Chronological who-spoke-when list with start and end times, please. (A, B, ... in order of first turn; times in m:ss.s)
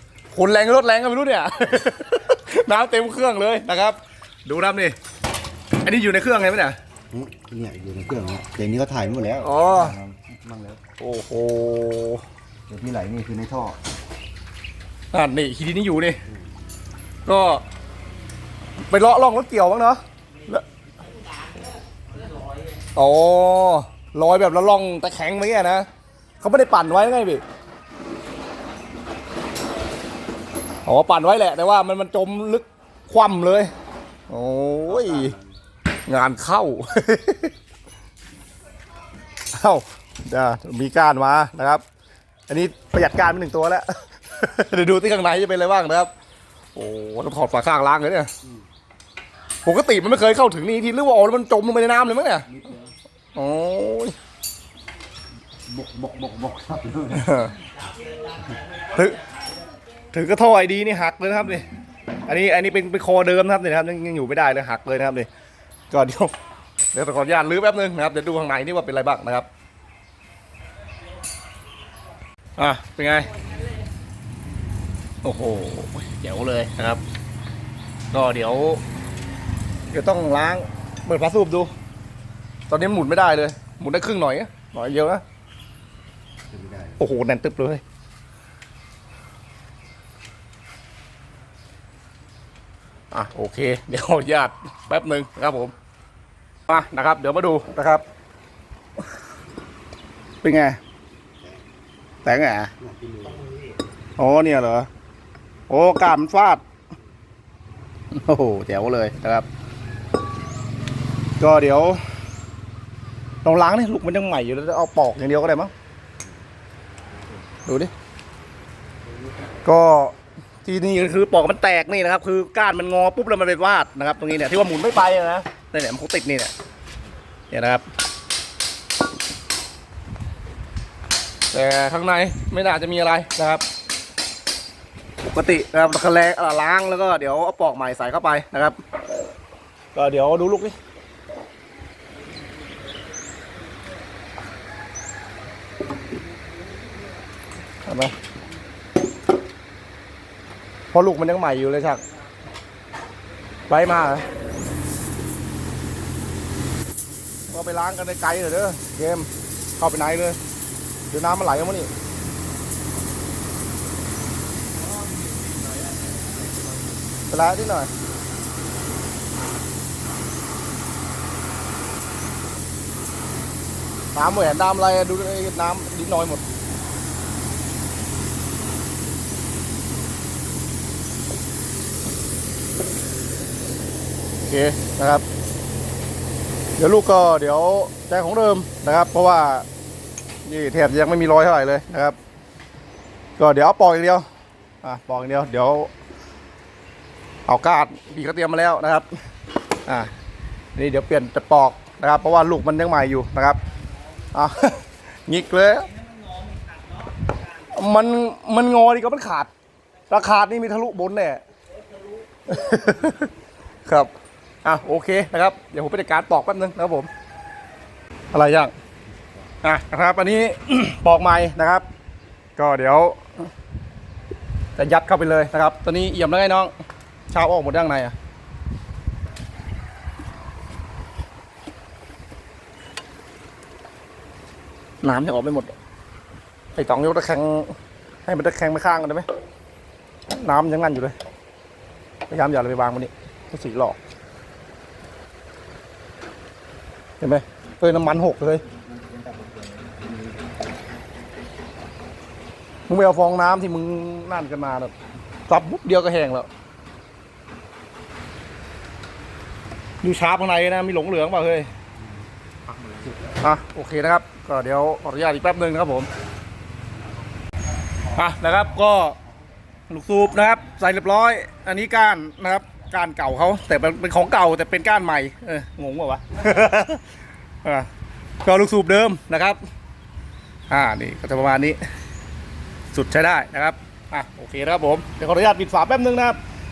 0:00.3-0:05.0 A
0:05.8-0:06.8 A
0:07.1-0:10.8 B
0:09.4-0:10.0 A
0:11.0-0:12.2 A
0:12.7-0:13.8 B
0:15.1-0:16.2 A
0:17.3-0:17.6 A
0:18.9-0:20.6 A
0:23.0-0:25.9 A
0:26.4-0:27.4 A
0:30.9-0:33.7 A
0:34.3-0:35.4 A
0:34.9-0:35.5 B
0:36.1-0:37.5 A
0:39.5-0:41.8 A
0:42.5-0:46.1 A
0:46.8-0:48.3 A
0:49.6-0:52.7 A
0:52.6-0:52.8 B
0:53.4-0:54.2 A
0:55.7-0:57.4 B
0:57.1-0:57.6 A
0:58.9-0:59.3 A
1:00.1-1:01.7 A
1:02.3-1:05.3 A
1:05.9-1:06.3 A
1:06.9-1:09.5 A
1:12.6-1:13.3 A
1:15.2-1:17.0 A
1:18.1-1:18.8 A
1:19.9-1:21.7 A
1:22.7-1:25.2 A
1:26.5-1:27.0 B
1:27.0-1:27.8 A
1:33.1-1:35.7 A
1:36.7-1:38.0 A
1:40.4-1:40.8 A
1:42.2-1:42.7 A
1:42.8-1:43.8 B
1:44.2-1:44.9 A
1:45.7-1:46.6 A
1:48.1-1:49.5 A
1:51.4-1:52.0 A
1:53.4-1:55.7 A
1:57.7-1:57.9 A
1:59.6-2:00.1 A
2:00.6-2:06.5 A
2:07.5-2:07.9 A
2:11.5-2:13.6 A
2:15.3-2:18.8 A
2:20.0-2:20.8 A
2:27.8-2:28.1 A
2:30.9-2:32.0 A
2:33.7-2:34.3 A
2:37.5-2:40.4 A
2:41.1-2:41.9 A
2:47.3-2:47.9 A
2:54.1-2:56.4 A
3:04.4-3:05.3 A
3:06.8-3:09.7 A
3:10.5-3:12.2 A
3:13.4-3:14.2 A
3:14.8-3:15.9 A
3:17.5-3:19.1 A
3:20.8-3:23.6 A
3:24.3-3:25.9 A
3:27.7-3:29.5 A
3:30.1-3:31.4 A
3:32.5-3:33.3 A
3:34.6-3:37.1 A
3:38.3-3:38.7 A
3:39.6-3:41.8 A
3:42.6-3:43.5 A
3:44.8-3:46.7 A
3:47.3-3:48.2 A
3:55.0-3:55.8 A
3:56.8-3:59.3 A
4:00.3-4:01.2 A
4:02.3-4:04.0 A
4:07.2-4:08.6 A
4:09.0-4:10.3 B
4:12.9-4:14.9 A
4:15.5-4:16.5 A
4:20.0-4:21.7 A
4:22.7-4:23.2 B
4:23.4-4:26.1 A
4:28.1-4:29.2 A
4:29.9-4:37.0 A
4:37.6-4:37.9 A
4:38.4-4:39.6 A
4:40.7-4:41.8 A
4:42.9-4:46.4 A